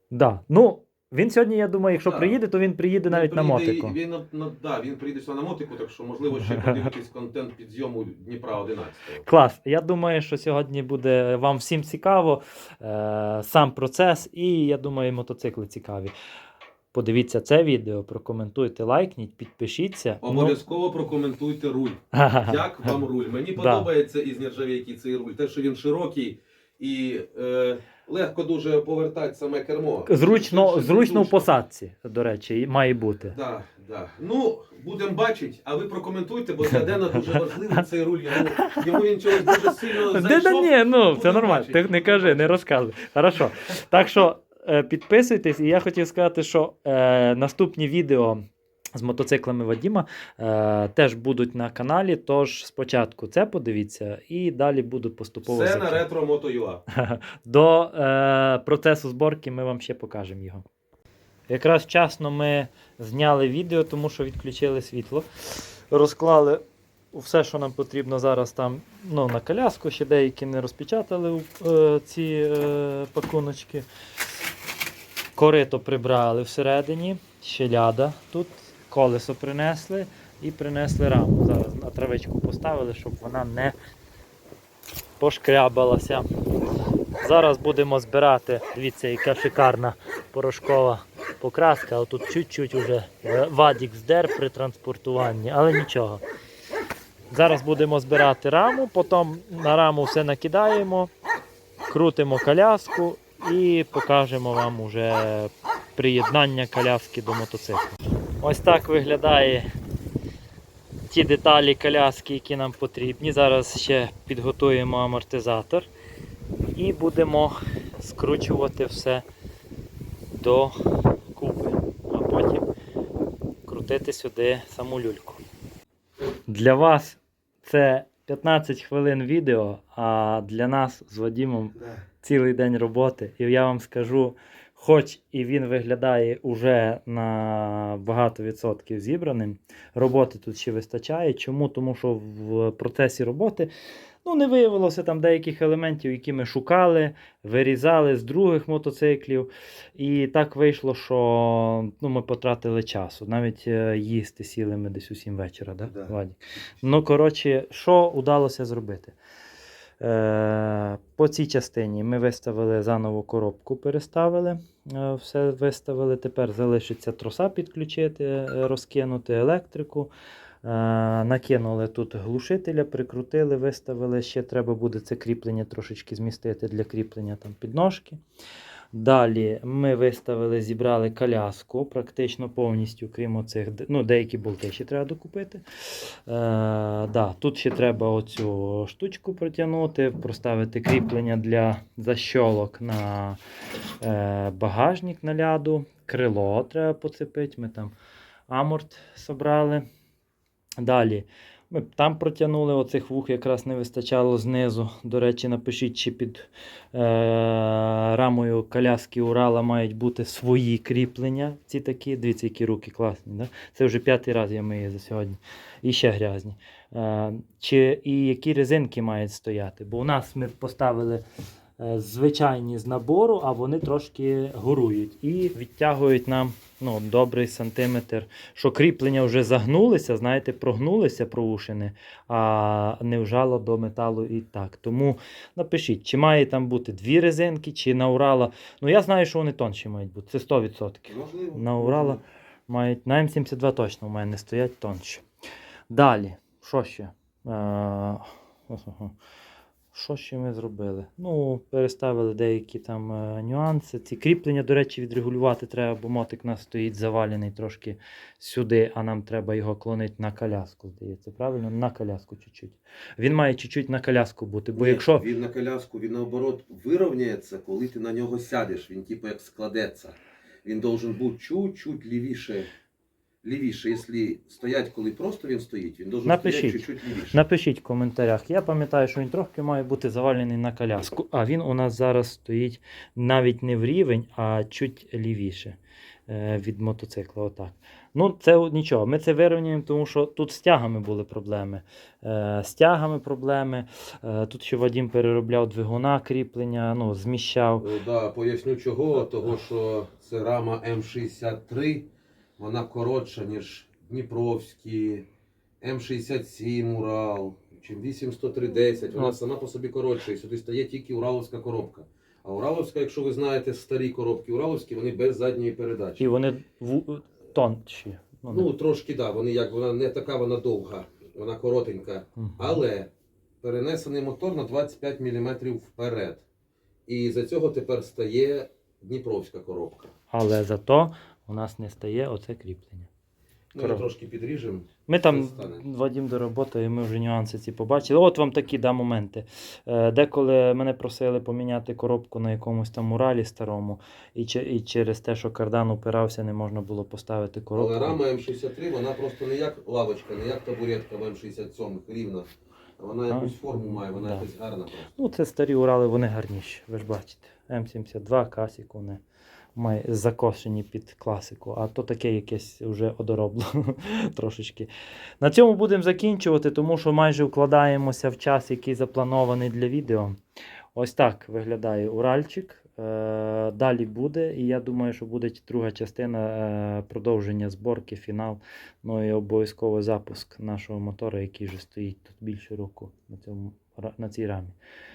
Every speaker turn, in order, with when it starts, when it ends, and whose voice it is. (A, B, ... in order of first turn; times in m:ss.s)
0:00.1-0:04.0 A
0:02.0-0:02.4 B
0:03.1-0:09.2 B
0:06.3-0:06.9 A
0:09.2-0:16.1 A
0:16.9-0:20.6 A
0:20.2-0:31.6 B
0:22.1-0:23.0 A
0:23.6-0:23.9 A
0:30.1-0:33.4 A
0:33.3-0:42.6 B
0:36.7-0:37.8 A
0:38.5-0:38.8 A
0:39.4-0:48.4 A
0:48.9-0:56.0 A
0:55.4-0:56.8 B
0:56.9-1:00.6 A
1:01.5-1:05.3 A
1:05.9-1:06.6 A
1:07.1-1:13.8 A
1:15.4-1:23.8 A
1:25.2-1:26.2 A
1:27.2-1:36.2 A
1:37.3-1:41.1 A
1:41.9-1:47.9 A
1:48.4-1:49.7 A
1:51.1-1:55.9 A
1:56.7-1:59.2 A
2:00.3-2:00.7 A
2:01.3-2:02.7 A
2:03.6-2:05.4 A
2:06.5-2:23.7 A
2:24.2-2:39.1 A
2:35.8-2:36.2 B
2:40.0-2:50.1 A
2:50.6-2:58.2 A
2:58.9-3:05.6 A
3:06.3-3:13.4 A
3:14.0-3:17.9 A
3:18.5-3:19.8 A
3:20.8-3:41.2 A
3:41.8-4:05.2 A
4:01.1-4:02.2 B
4:05.9-4:09.1 A
4:09.9-4:25.3 A
4:24.8-4:32.7 B
4:33.4-4:37.4 B
4:36.2-4:57.9 A
4:57.8-5:05.2 B
5:05.8-5:16.2 B
5:16.2-5:18.7 A
5:18.5-5:23.1 B
5:22.4-5:22.8 A
5:23.6-5:26.4 B
5:27.1-5:30.1 B
5:30.3-5:33.1 A
5:33.7-5:35.8 B
5:33.8-5:34.1 A
5:35.1-5:48.2 A
5:47.7-5:52.5 B
5:53.0-5:55.1 B
5:53.3-5:54.5 A
5:55.1-5:59.2 A
5:59.7-6:04.9 A
6:05.4-6:10.4 A
6:10.9-6:24.8 A